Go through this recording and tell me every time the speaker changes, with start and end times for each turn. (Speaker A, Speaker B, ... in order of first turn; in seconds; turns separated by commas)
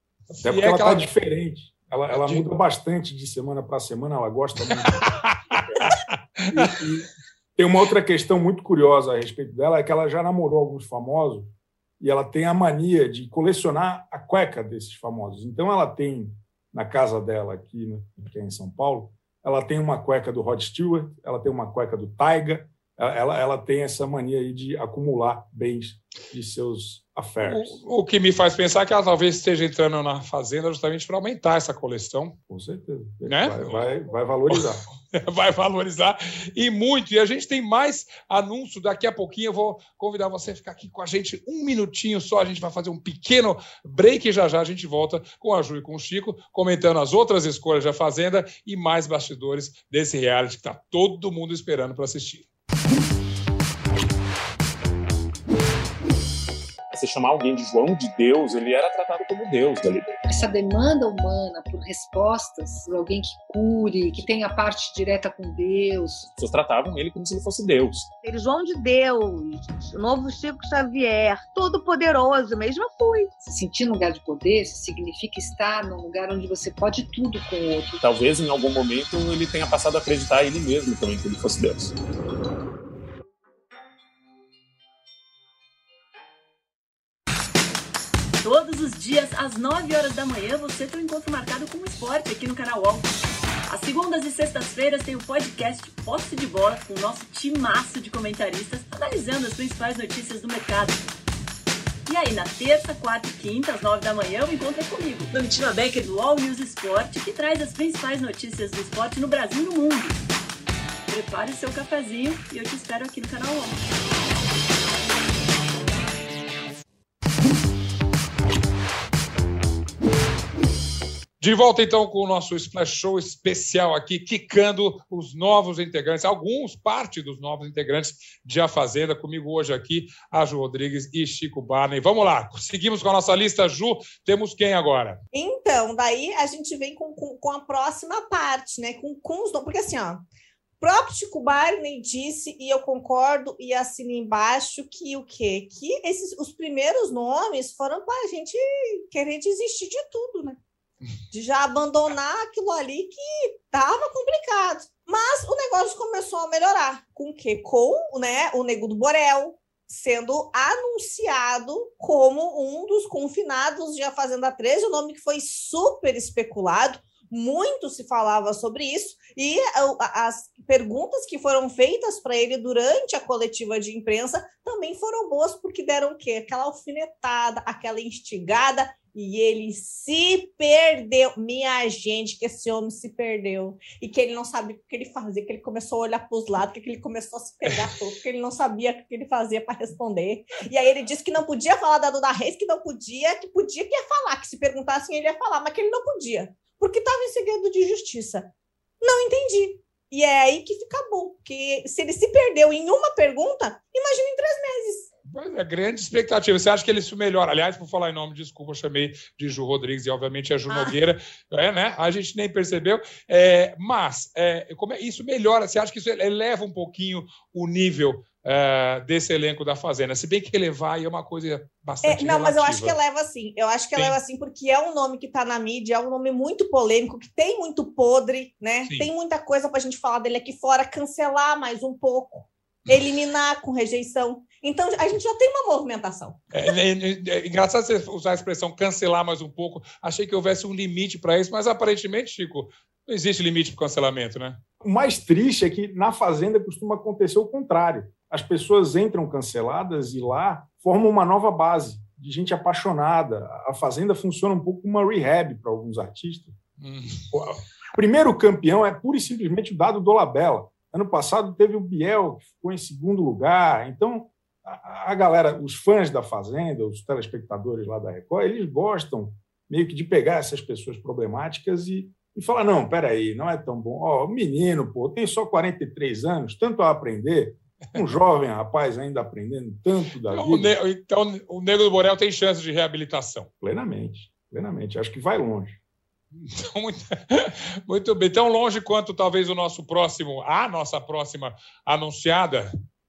Speaker A: 0.3-1.1, Speaker B: 0.4-5.1, Speaker A: 2.1-2.5, Speaker A: 4.7-6.8, Speaker B: 6.5-27.8, Speaker A: 27.4-32.3, Speaker B: 32.5-34.8, Speaker A: 33.3-33.9, Speaker A: 34.5-52.5, Speaker C: 56.9-60.2, Speaker D: 60.3-66.3, Speaker C: 66.3-68.1, Speaker E: 68.2-73.3, Speaker D: 73.4-78.0, Speaker C: 78.0-82.0, Speaker F: 88.4-93.1, Speaker F: 93.7-101.0, Speaker F: 102.1-110.2, Speaker F: 111.1-113.8, Speaker A: 121.4-135.2, Speaker G: 135.3-140.2, Speaker G: 140.8-150.6, Speaker G: 151.3-198.5, Speaker G: 199.0-205.1, Speaker A: 205.3-223.0, Speaker G: 210.7-211.0, Speaker G: 222.0-236.4, Speaker A: 236.5-244.6, Speaker B: 244.8-256.6, Speaker A: 256.8-257.3, Speaker B: 257.3-280.7, Speaker A: 280.3-283.5, Speaker B: 283.6-285.8, Speaker A: 286.4-292.7